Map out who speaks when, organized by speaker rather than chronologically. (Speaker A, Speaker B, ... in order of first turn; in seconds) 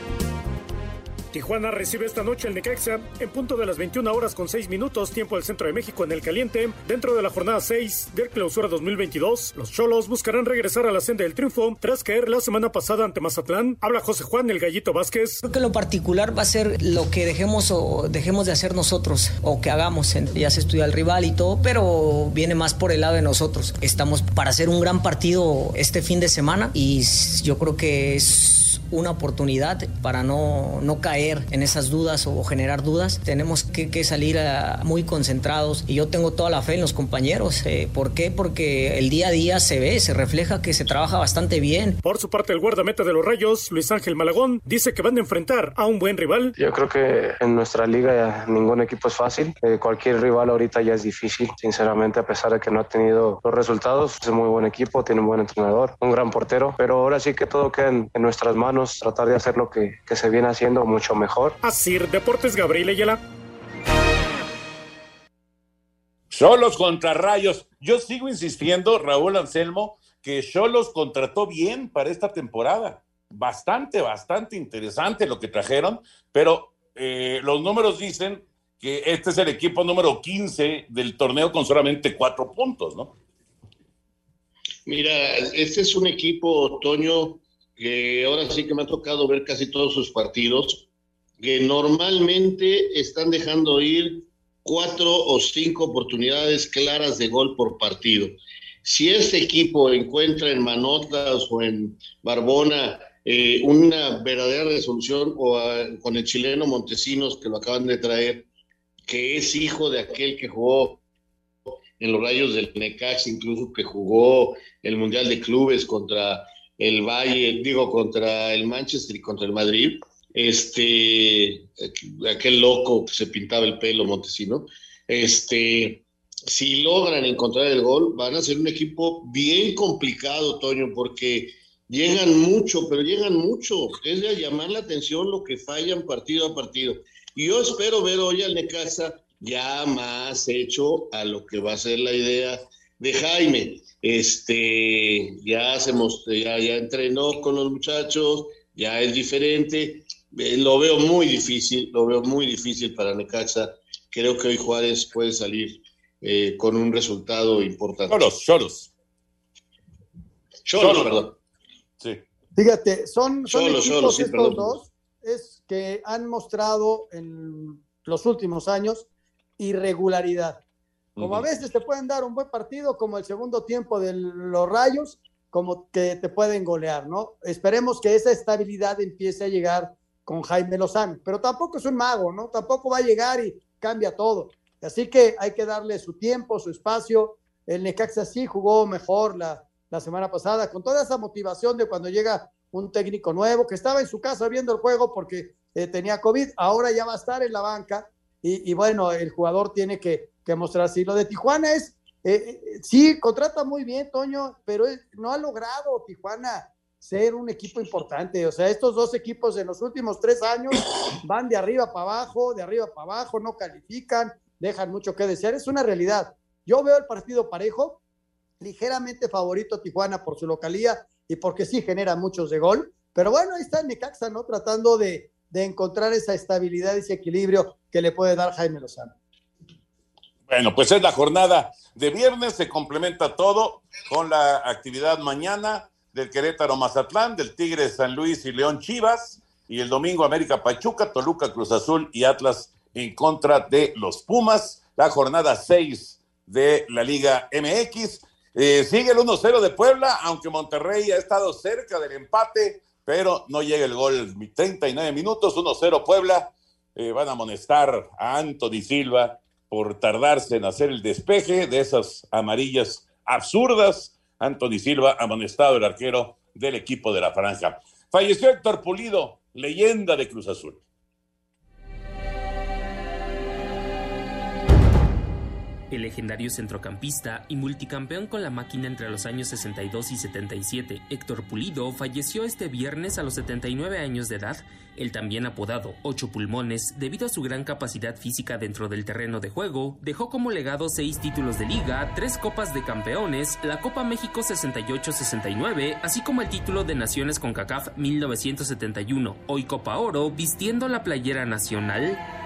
Speaker A: 1.3-15.4, 42.0-46.5, 61.6-63.2
Speaker B: 15.4-42.0
Speaker C: 46.6-61.6
Speaker D: 66.3-83.1, 158.1-158.9, 160.8-161.1, 230.5-270.8
Speaker E: 84.9-90.8, 91.4-108.4, 109.1-111.0, 112.0-158.2, 160.7-161.3, 163.5-164.8
Speaker F: 162.6-169.1, 169.6-170.6, 171.2-218.0, 218.6-229.1
Speaker G: 275.9-302.2